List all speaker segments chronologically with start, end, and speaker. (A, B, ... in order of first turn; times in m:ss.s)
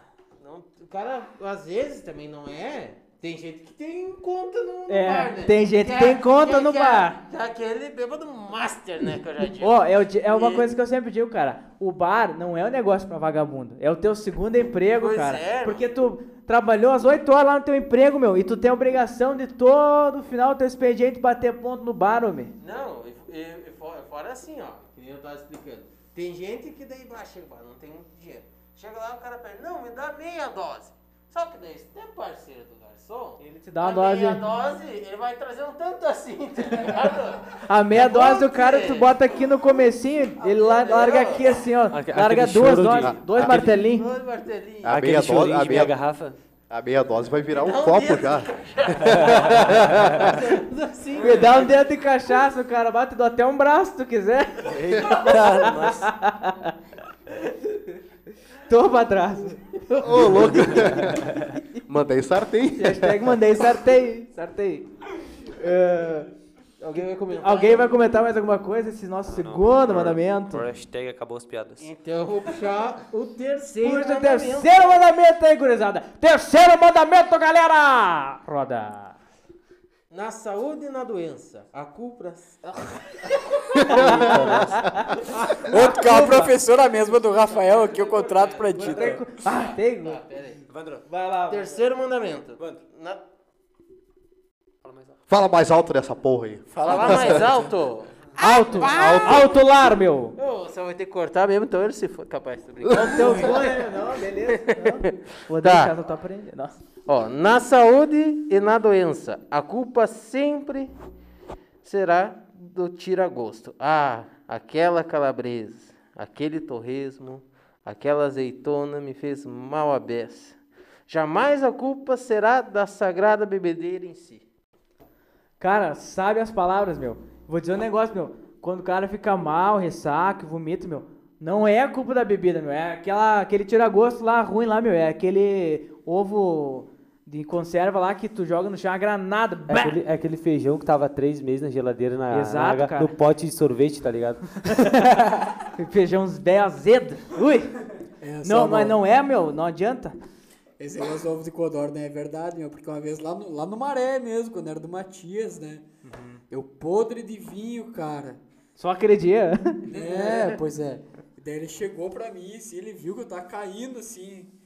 0:00.4-0:10.6 A
0:04.9-0:07.2 B
0:09.6-0:22.5 B
0:14.9-0:15.8 A
0:22.6-0:39.1 A
0:33.4-0:34.4 B
0:37.6-0:44.1 B
0:40.4-0:41.6 A
0:41.9-0:43.7 C
0:43.0-0:43.5 D
0:43.4-0:45.0 A
0:44.8-0:45.9 D
0:44.9-0:46.4 C
0:46.7-0:50.5 D
0:47.5-0:51.7 A
0:49.2-0:50.2 C
0:51.2-0:56.7 B
0:54.6-0:56.1 C
0:58.7-0:59.6 B
1:00.0-1:03.4 D
1:01.0-1:01.5 C
1:02.8-1:04.9 B
1:05.4-1:06.3 B
1:06.8-1:07.9 A
1:07.4-1:10.6 B
1:09.2-1:11.9 C
1:11.8-1:14.7 A
1:13.8-1:19.2 B
1:20.1-1:26.4 A
1:23.8-1:24.6 D
1:23.9-1:26.5 B
1:24.2-1:24.7 C
1:25.6-1:29.2 E
1:27.4-1:30.6 A
1:28.8-1:30.2 B
1:30.7-1:31.1 C
1:31.1-1:31.6 B
1:31.5-1:33.2 A
1:34.8-1:35.2 C
1:35.3-1:37.5 D
1:36.7-1:37.4 E
1:36.8-1:39.5 A
1:38.4-1:40.3 B
1:38.9-1:39.5 D
1:40.4-1:45.9 A
1:42.9-1:46.7 B
1:47.1-1:50.9 A
1:51.8-2:00.6 A
2:01.1-2:04.4 A
2:05.6-2:20.0 B
2:19.7-2:25.0 C
2:22.3-2:23.1 B
2:24.6-2:27.8 B
2:28.2-2:29.0 E
2:28.4-2:30.2 B
2:30.8-2:35.8 E
2:36.0-2:36.4 B
2:36.5-2:38.4 E
2:38.8-2:39.9 B
2:39.9-2:44.5 E